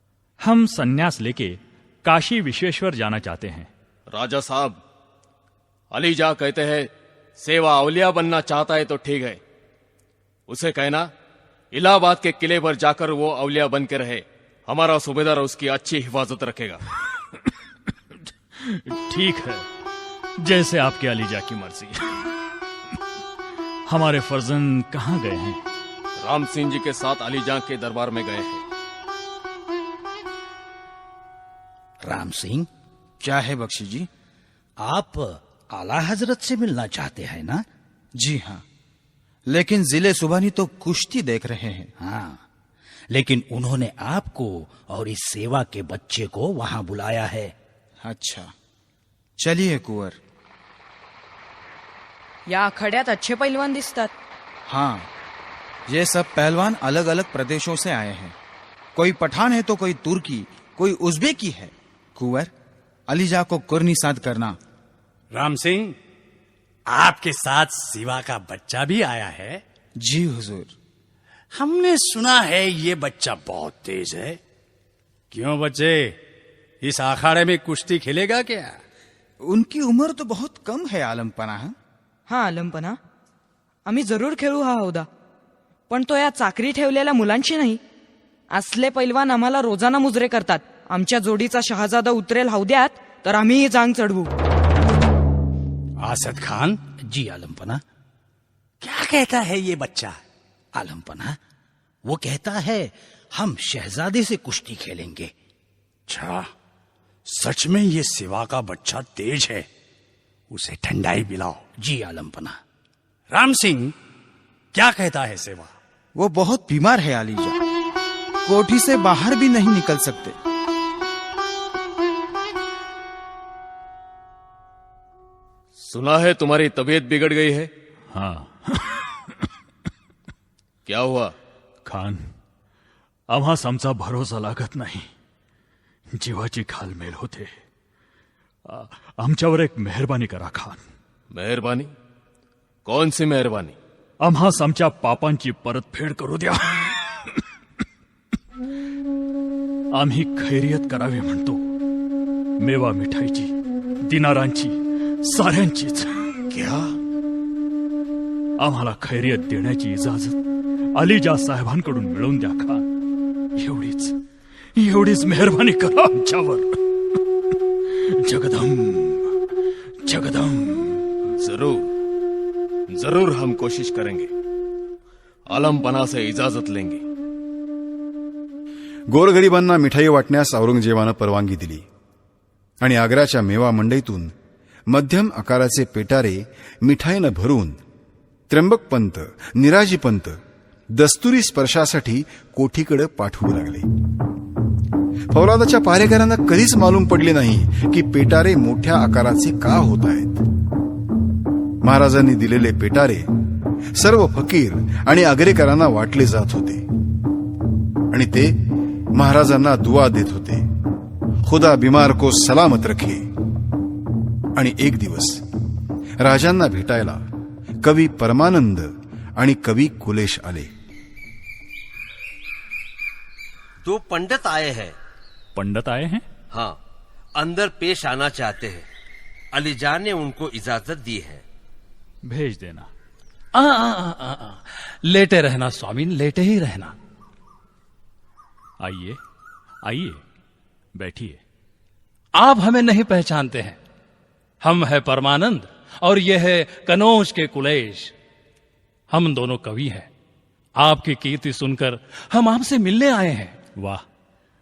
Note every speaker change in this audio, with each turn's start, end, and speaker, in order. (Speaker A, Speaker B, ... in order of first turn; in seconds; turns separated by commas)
Speaker A: 0.4-3.7, Speaker B: 4.1-4.8, Speaker B: 5.9-9.4, Speaker B: 10.5-11.1, Speaker B: 11.7-16.8, Speaker A: 18.5-19.7, Speaker A: 20.4-22.2, Speaker A: 23.9-25.6, Speaker B: 26.2-28.6, Speaker C: 32.0-32.7, Speaker D: 33.2-34.1, Speaker C: 34.8-37.6, Speaker D: 38.2-38.6, Speaker D: 39.5-41.9, Speaker C: 42.0-42.4, Speaker C: 43.1-47.5, Speaker D: 48.0-48.5, Speaker D: 49.4-50.2, Speaker E: 52.5-54.1, Speaker D: 54.7-55.1, Speaker D: 55.9-58.3, Speaker D: 58.9-62.5, Speaker D: 63.1-64.6, Speaker F: 65.3-66.0, Speaker F: 66.9-69.6, Speaker D: 70.0-70.7, Speaker F: 71.5-74.4, Speaker F: 75.3-76.2, Speaker F: 76.8-78.7, Speaker D: 79.4-81.7, Speaker E: 82.3-83.0, Speaker E: 83.8-85.1, Speaker E: 85.9-87.8, Speaker E: 88.5-94.3, Speaker F: 96.0-96.8, Speaker C: 97.1-97.8, Speaker F: 98.8-100.2, Speaker C: 100.7-101.4, Speaker C: 102.1-105.3, Speaker F: 106.1-106.5, Speaker F: 107.2-109.7, Speaker F: 110.5-111.6, Speaker C: 111.8-112.6, Speaker F: 113.3-113.9, Speaker F: 114.7-115.7, Speaker D: 116.2-117.6, Speaker D: 118.4-120.3, Speaker B: 125.8-127.7, Speaker A: 128.1-129.4, Speaker B: 130.8-131.3, Speaker A: 131.8-132.3, Speaker A: 133.3-135.1, Speaker A: 136.1-137.5, Speaker A: 138.7-140.8, Speaker B: 141.3-141.9, Speaker B: 142.8-143.8, Speaker A: 144.2-147.4, Speaker A: 149.9-151.6, Speaker A: 152.6-153.5, Speaker A: 154.1-156.3, Speaker A: 158.6-160.4, Speaker A: 160.9-162.9, Speaker A: 163.6-164.2, Speaker A: 164.8-166.8, Speaker A: 167.9-169.3, Speaker A: 170.0-171.1, Speaker B: 171.4-171.9, Speaker B: 172.9-174.3, Speaker B: 175.5-177.0, Speaker G: 179.1-181.8, Speaker G: 182.8-184.3, Speaker G: 184.9-187.8, Speaker G: 188.5-190.4, Speaker G: 190.9-193.8, Speaker G: 195.3-200.4, Speaker G: 201.8-203.3, Speaker G: 203.9-206.8, Speaker G: 208.1-208.5, Speaker G: 209.1-210.6, Speaker G: 211.4-213.2, Speaker G: 214.5-215.4, Speaker G: 216.2-217.2, Speaker G: 217.8-220.7, Speaker H: 223.8-224.9, Speaker A: 225.5-226.2, Speaker H: 226.5-226.8, Speaker H: 227.3-228.8, Speaker H: 229.5-231.4, Speaker A: 232.2-232.9, Speaker I: 233.5-236.9, Speaker A: 238.8-239.2, Speaker A: 239.8-240.2, Speaker A: 240.9-241.4, Speaker I: 242.3-243.8, Speaker I: 244.6-248.1, Speaker I: 249.1-250.1, Speaker I: 250.8-253.6, Speaker A: 253.8-254.0